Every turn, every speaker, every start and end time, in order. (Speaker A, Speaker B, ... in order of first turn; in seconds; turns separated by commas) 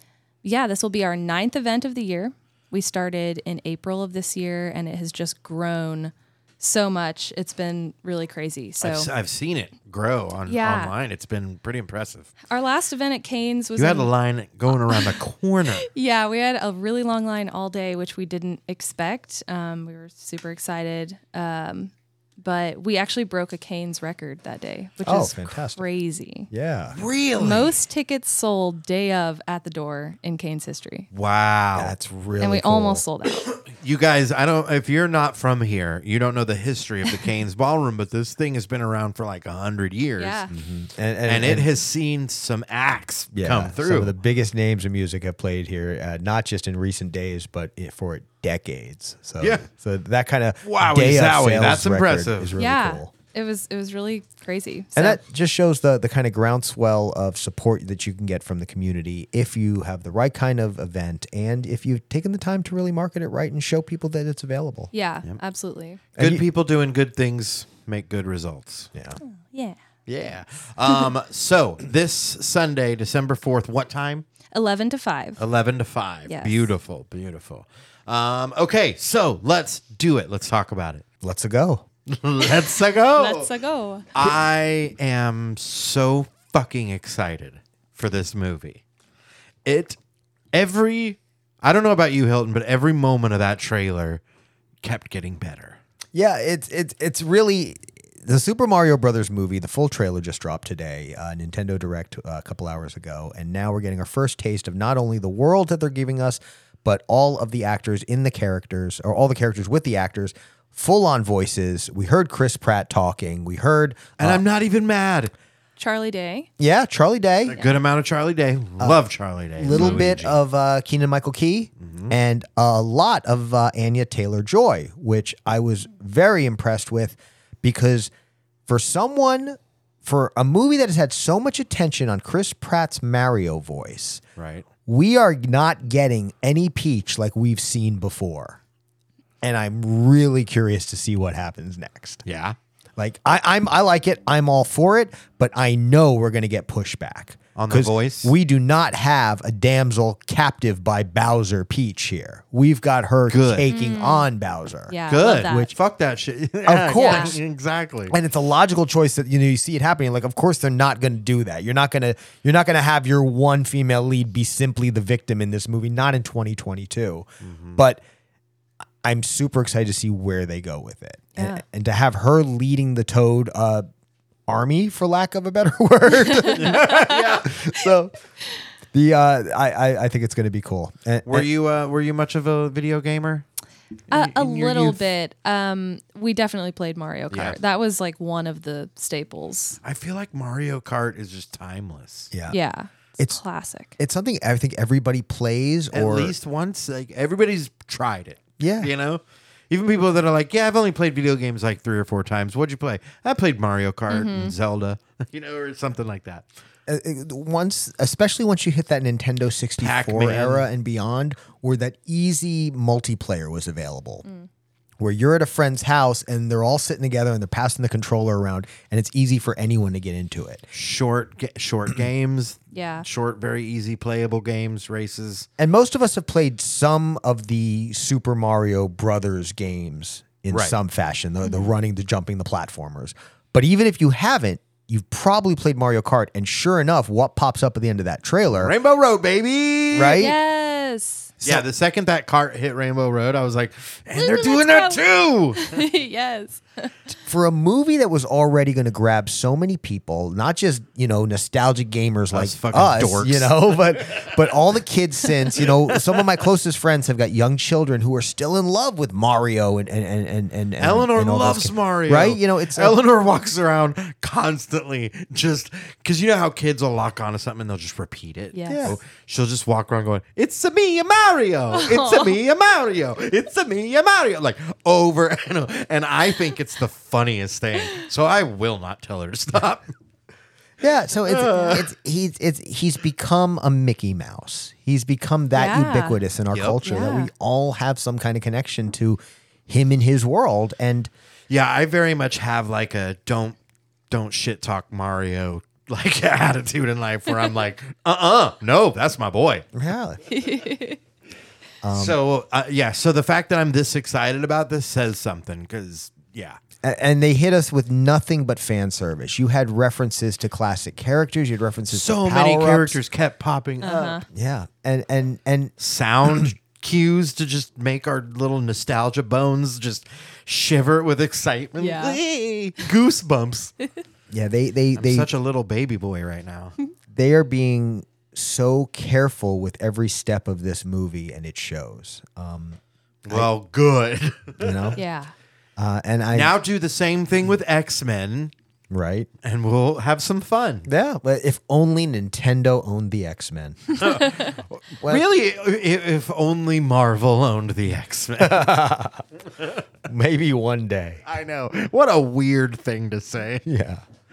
Speaker A: 0.4-9.1, Speaker B: 8.8-12.3, Speaker A: 10.5-10.9, Speaker A: 12.5-14.1, Speaker B: 13.8-15.8, Speaker A: 14.7-15.1, Speaker A: 15.8-26.5, Speaker C: 25.0-25.9, Speaker C: 26.5-27.0, Speaker B: 26.9-27.7, Speaker A: 27.4-31.1, Speaker B: 31.1-31.9, Speaker C: 31.8-33.0, Speaker A: 32.4-33.5, Speaker B: 33.4-40.4, Speaker A: 40.2-40.5, Speaker C: 40.5-41.7, Speaker B: 41.2-44.1, Speaker C: 43.3-53.1, Speaker B: 50.6-52.5, Speaker A: 52.6-55.2, Speaker C: 55.0-64.9, Speaker A: 64.9-66.0, Speaker B: 66.2-68.9, Speaker C: 66.2-66.4, Speaker C: 68.9-69.2, Speaker A: 69.2-69.8, Speaker B: 70.1-74.2, Speaker A: 74.5-75.4, Speaker B: 75.4-81.0, Speaker A: 76.3-76.7, Speaker C: 81.2-81.8, Speaker B: 82.1-83.5, Speaker A: 83.1-84.1, Speaker B: 84.1-88.8, Speaker B: 89.6-90.0, Speaker B: 90.5-94.2, Speaker B: 94.8-95.8, Speaker C: 96.1-114.4, Speaker B: 114.2-115.3, Speaker A: 115.8-116.5, Speaker C: 116.6-117.6, Speaker B: 117.5-120.4, Speaker A: 117.5-117.8, Speaker C: 119.6-128.1, Speaker B: 121.8-122.1, Speaker C: 128.7-134.2, Speaker B: 134.3-134.7, Speaker C: 134.8-138.6, Speaker C: 139.4-142.2, Speaker B: 142.2-142.6, Speaker C: 143.0-155.7, Speaker B: 147.6-148.3, Speaker B: 153.3-153.7, Speaker A: 153.7-154.3, Speaker A: 154.9-155.7, Speaker B: 155.1-158.1, Speaker C: 156.6-157.4, Speaker A: 157.0-157.3, Speaker C: 158.1-168.0, Speaker B: 167.4-167.8, Speaker C: 169.0-173.8, Speaker A: 171.3-171.6, Speaker C: 174.5-178.1, Speaker A: 176.3-177.2, Speaker B: 176.5-177.6, Speaker C: 178.9-181.5, Speaker B: 181.2-183.4, Speaker B: 184.1-185.0, Speaker A: 184.1-189.8, Speaker B: 187.3-187.6, Speaker B: 189.8-192.3, Speaker C: 192.3-192.6, Speaker A: 192.5-193.9, Speaker C: 194.0-196.3, Speaker B: 195.9-206.5, Speaker C: 198.6-198.9, Speaker A: 204.1-204.5, Speaker C: 206.9-214.2, Speaker B: 209.8-210.6, Speaker C: 215.0-220.7, Speaker B: 220.7-225.5, Speaker A: 222.7-223.1, Speaker C: 225.6-238.7, Speaker B: 230.5-230.7, Speaker B: 238.6-240.2, Speaker C: 239.9-240.3, Speaker A: 240.1-241.3, Speaker C: 241.4-241.7, Speaker B: 241.4-245.8, Speaker A: 244.1-245.0, Speaker A: 245.6-246.9, Speaker C: 247.2-263.0, Speaker B: 252.3-254.3, Speaker B: 255.9-256.2, Speaker B: 260.8-279.9, Speaker A: 268.5-268.9, Speaker C: 268.7-269.0, Speaker A: 271.7-272.3, Speaker C: 280.8-291.1, Speaker B: 281.3-281.9, Speaker A: 285.5-286.2, Speaker B: 286.5-287.0, Speaker A: 286.8-287.3, Speaker B: 291.5-293.6, Speaker B: 294.1-299.6, Speaker C: 299.7-300.2, Speaker A: 300.3-301.0, Speaker C: 301.8-302.2, Speaker B: 301.9-306.6, Speaker C: 306.8-313.0, Speaker B: 311.9-314.2, Speaker A: 313.8-314.2, Speaker C: 314.3-315.7, Speaker B: 315.8-323.7, Speaker A: 321.8-322.2, Speaker C: 324.3-325.3, Speaker B: 324.9-326.8, Speaker C: 327.1-333.5, Speaker B: 333.2-335.0, Speaker C: 334.6-335.0, Speaker A: 335.0-335.3, Speaker C: 335.8-336.5, Speaker B: 336.3-338.5, Speaker C: 338.9-339.3, Speaker B: 339.4-340.9, Speaker C: 340.9-344.0, Speaker B: 344.0-348.8, Speaker C: 348.4-349.2, Speaker C: 350.0-351.2, Speaker B: 351.2-353.6, Speaker C: 353.6-354.0